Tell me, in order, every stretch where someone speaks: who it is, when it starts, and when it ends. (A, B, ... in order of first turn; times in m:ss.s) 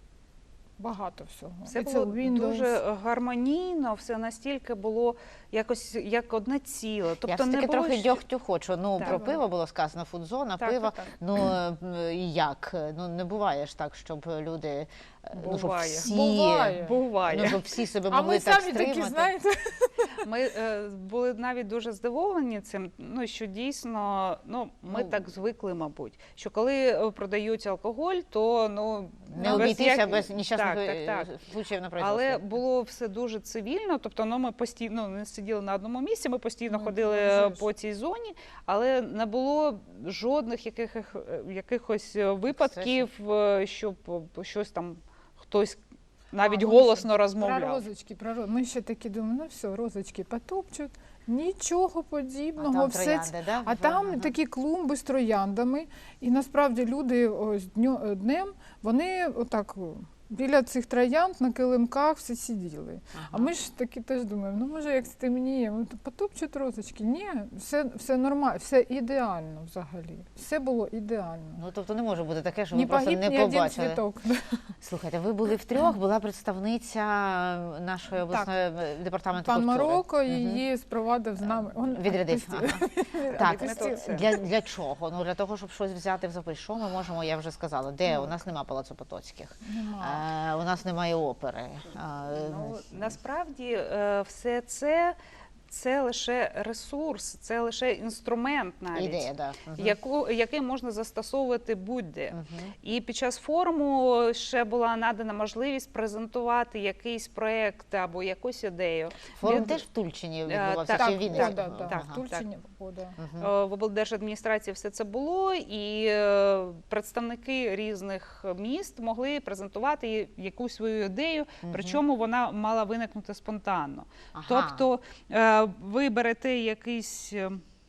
0:00.8-0:02.8 A
0:01.7-0:08.2 B
0:07.2-0:19.3 C
0:09.0-0:09.4 A
0:10.6-0:11.2 B
0:15.4-0:16.1 B
0:16.0-0:17.0 A
0:16.8-0:17.6 B
0:18.1-0:20.2 A
0:20.2-0:31.3 B
0:24.9-0:25.2 C
0:29.3-0:32.4 C
0:29.4-0:29.8 A
0:32.0-0:45.8 B
0:36.7-0:37.6 A
0:42.5-0:43.1 C
0:46.3-0:47.8 B
0:46.4-1:11.6 A
0:52.6-0:54.3 C
1:03.1-1:03.5 C
1:11.6-1:14.0 C
1:12.7-1:14.7 A
1:14.8-1:20.6 C
1:18.2-1:18.5 A
1:19.4-1:24.4 A
1:21.4-1:32.9 C
1:23.2-1:24.3 B
1:29.6-1:30.2 A
1:32.3-1:35.2 B
1:35.7-1:49.8 B
1:38.9-1:40.0 C
1:42.3-1:42.7 C
1:49.3-1:52.2 C
1:49.4-1:49.8 A
1:50.4-1:52.4 B
1:50.9-1:53.2 A
1:53.2-1:53.5 C
1:53.4-2:07.6 B
2:01.6-2:02.0 C
2:04.3-2:04.8 C